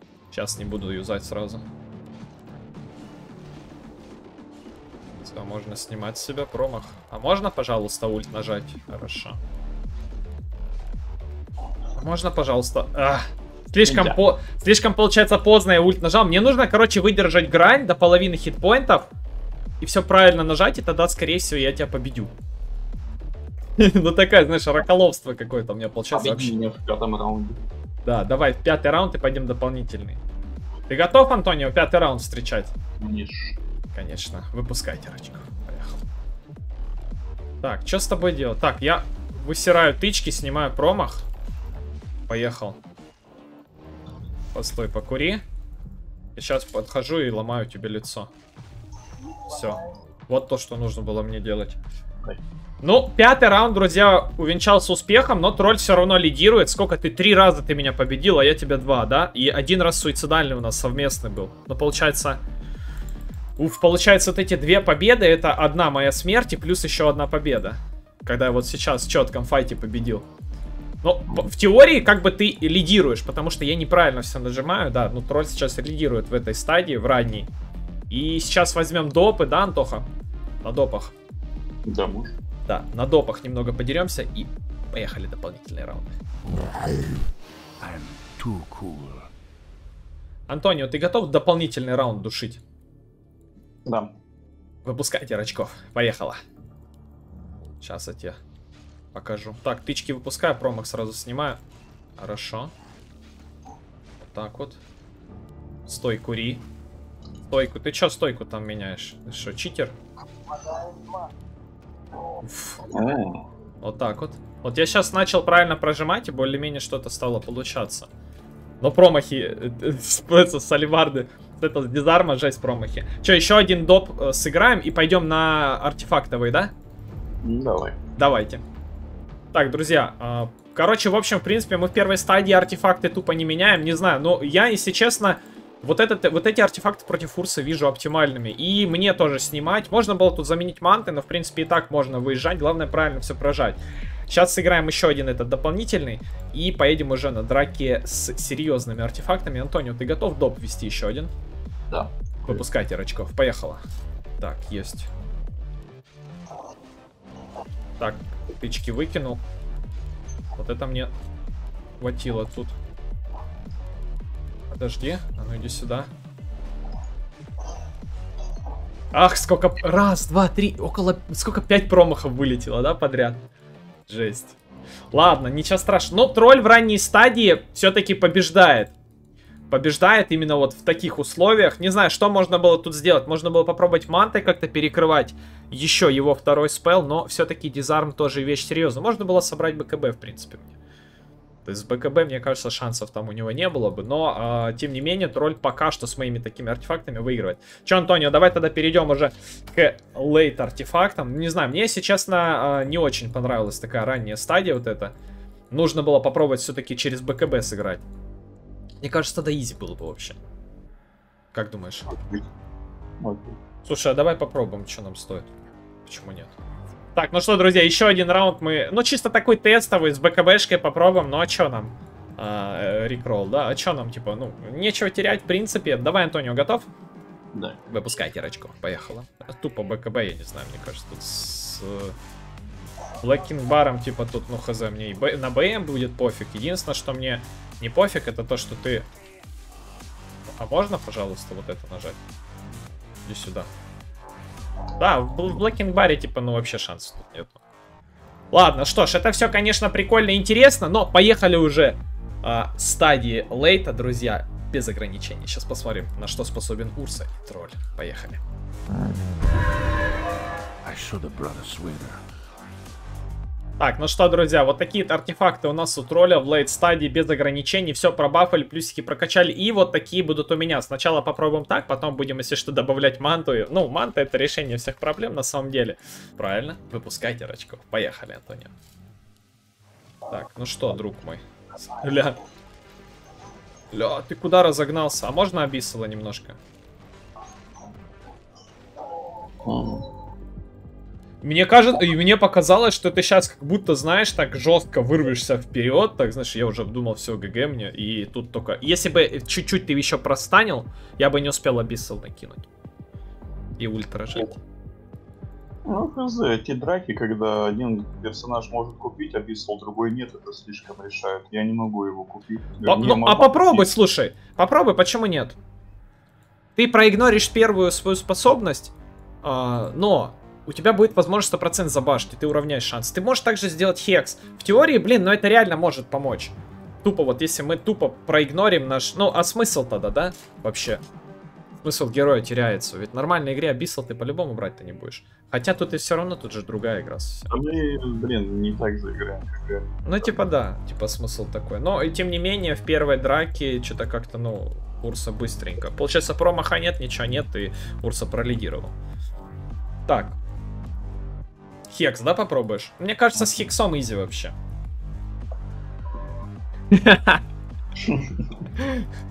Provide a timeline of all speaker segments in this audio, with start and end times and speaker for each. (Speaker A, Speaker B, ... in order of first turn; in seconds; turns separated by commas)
Speaker A: 0.3-1.6, Speaker A: 5.2-9.4, Speaker A: 11.9-19.1, Speaker B: 13.8-14.2, Speaker A: 19.8-22.3, Speaker A: 23.8-26.5, Speaker B: 26.1-27.6, Speaker A: 28.0-30.2, Speaker A: 30.9-32.7, Speaker B: 33.0-33.6, Speaker A: 33.9-36.0, Speaker A: 37.6-41.2, Speaker A: 42.3-42.8, Speaker A: 44.5-45.4, Speaker A: 46.4-48.3, Speaker A: 49.5-51.8, Speaker A: 52.8-62.4, Speaker A: 63.6-70.2, Speaker A: 71.0-77.5, Speaker A: 78.1-80.1, Speaker A: 80.6-81.1, Speaker B: 81.8-82.3, Speaker A: 82.7-86.2, Speaker C: 87.8-89.3, Speaker A: 90.5-92.6, Speaker B: 93.8-94.1, Speaker A: 94.8-96.4, Speaker A: 97.8-98.4, Speaker A: 99.1-101.6, Speaker A: 102.2-102.7, Speaker A: 104.2-104.8, Speaker A: 105.9-106.6, Speaker A: 107.5-110.0, Speaker B: 110.7-111.2, Speaker A: 112.4-112.9, Speaker B: 112.8-113.4, Speaker A: 113.8-118.1, Speaker A: 118.8-126.7, Speaker B: 127.4-128.0, Speaker A: 128.2-128.6, Speaker A: 129.5-151.3, Speaker B: 151.9-152.6, Speaker A: 152.4-153.8, Speaker A: 154.4-155.1, Speaker A: 158.0-159.4, Speaker A: 160.5-161.1, Speaker A: 162.0-162.7, Speaker A: 164.7-166.1, Speaker A: 169.1-173.4, Speaker A: 174.1-174.5, Speaker A: 175.1-178.9, Speaker A: 179.7-190.7, Speaker A: 191.6-205.1, Speaker A: 205.7-208.0, Speaker A: 209.0-210.4, Speaker A: 211.5-212.1, Speaker B: 212.1-212.4, Speaker B: 213.2-213.6, Speaker A: 213.8-215.5, Speaker A: 216.0-216.5, Speaker A: 217.1-226.9, Speaker B: 227.5-227.8, Speaker A: 227.9-232.1, Speaker A: 233.2-239.1, Speaker A: 240.5-242.2, Speaker A: 243.2-243.7, Speaker A: 245.0-247.6, Speaker A: 248.5-258.4, Speaker C: 260.8-262.2, Speaker A: 263.8-278.7, Speaker A: 280.3-282.4, Speaker A: 283.9-286.6, Speaker B: 289.6-290.1, Speaker A: 291.4-302.6, Speaker A: 303.8-304.6, Speaker B: 305.8-313.9, Speaker A: 312.8-315.6, Speaker A: 316.8-331.0, Speaker A: 331.8-337.5, Speaker B: 337.5-340.0, Speaker A: 340.0-348.9, Speaker A: 350.1-350.4, Speaker A: 351.9-354.5, Speaker A: 356.9-357.4, Speaker B: 358.0-358.5, Speaker A: 358.8-359.1